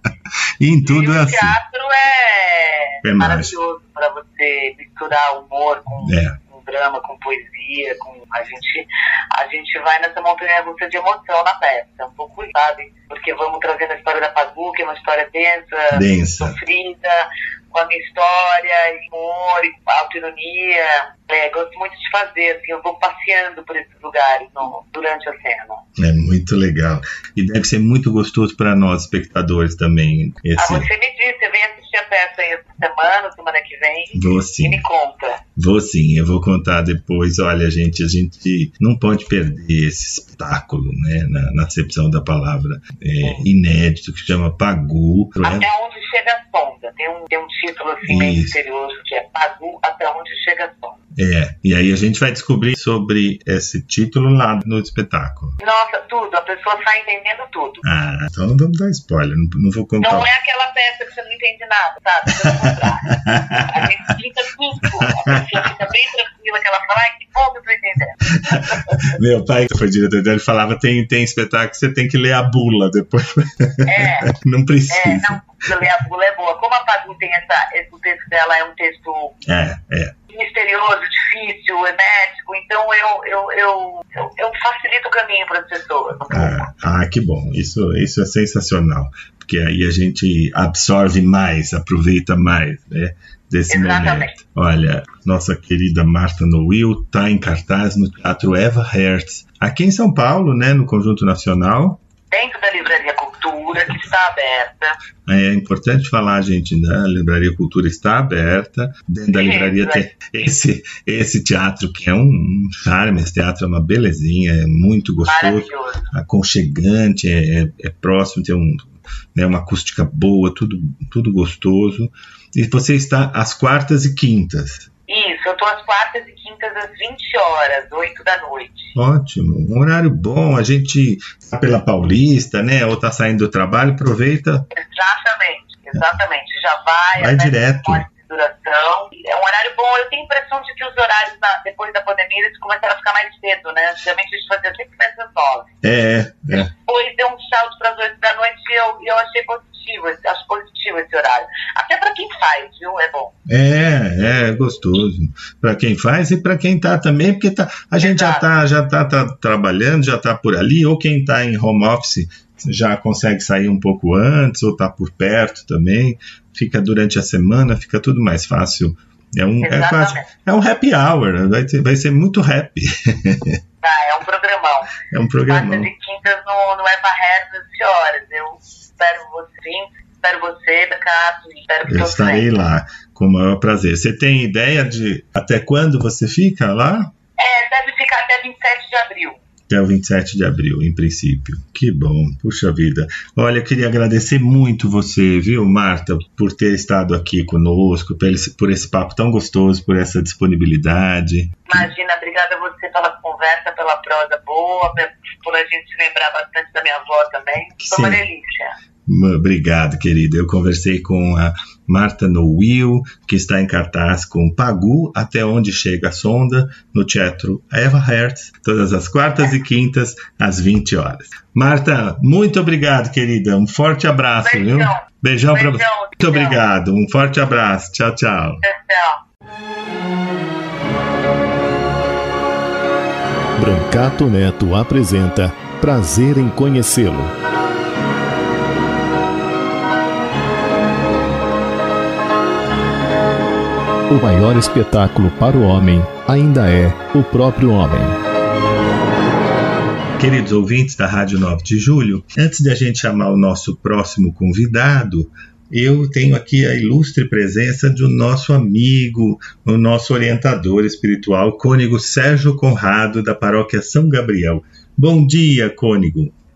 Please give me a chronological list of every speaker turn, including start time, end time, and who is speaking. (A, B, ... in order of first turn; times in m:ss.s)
0:00.6-0:01.6 A
0:00.8-0:25.8 B
0:03.0-0:03.5 A
0:06.0-0:06.4 A
0:15.9-0:16.6 A
0:26.0-0:30.9 A
0:30.6-0:35.4 B
0:34.1-0:34.8 A
0:35.6-0:45.7 A
0:45.4-0:51.0 B
0:48.1-0:48.6 A
0:51.2-0:55.6 A
0:55.6-0:57.9 B
0:57.8-1:00.3 A
1:00.0-1:09.1 B
1:02.4-1:03.9 A
1:08.5-1:15.9 A
1:13.9-1:14.3 B
1:14.9-1:19.3 B
1:19.5-1:20.1 A
1:20.3-1:26.7 B
1:26.3-1:42.0 A
1:33.7-1:34.3 B
1:42.3-1:45.0 B
1:45.3-2:04.9 A
1:49.3-1:50.1 B
1:55.2-1:56.1 B
2:05.1-2:08.9 B
2:09.0-2:14.6 A
2:14.7-2:25.7 B
2:17.2-2:18.1 A
2:25.8-2:26.7 A
2:26.5-2:33.3 B
2:33.5-2:53.6 A
2:38.0-2:38.4 B
2:49.6-2:50.3 B
2:53.8-3:02.6 B
2:55.1-2:55.9 A
3:01.9-3:07.1 A
3:07.4-3:09.4 B
3:09.7-3:21.9 A
3:21.7-3:28.8 B
3:27.8-3:28.2 A
3:29.1-3:48.6 A
3:44.4-3:46.6 B
3:48.6-3:49.2 B
3:53.6-3:57.3 C
4:04.1-4:08.2 C
4:10.2-4:26.3 A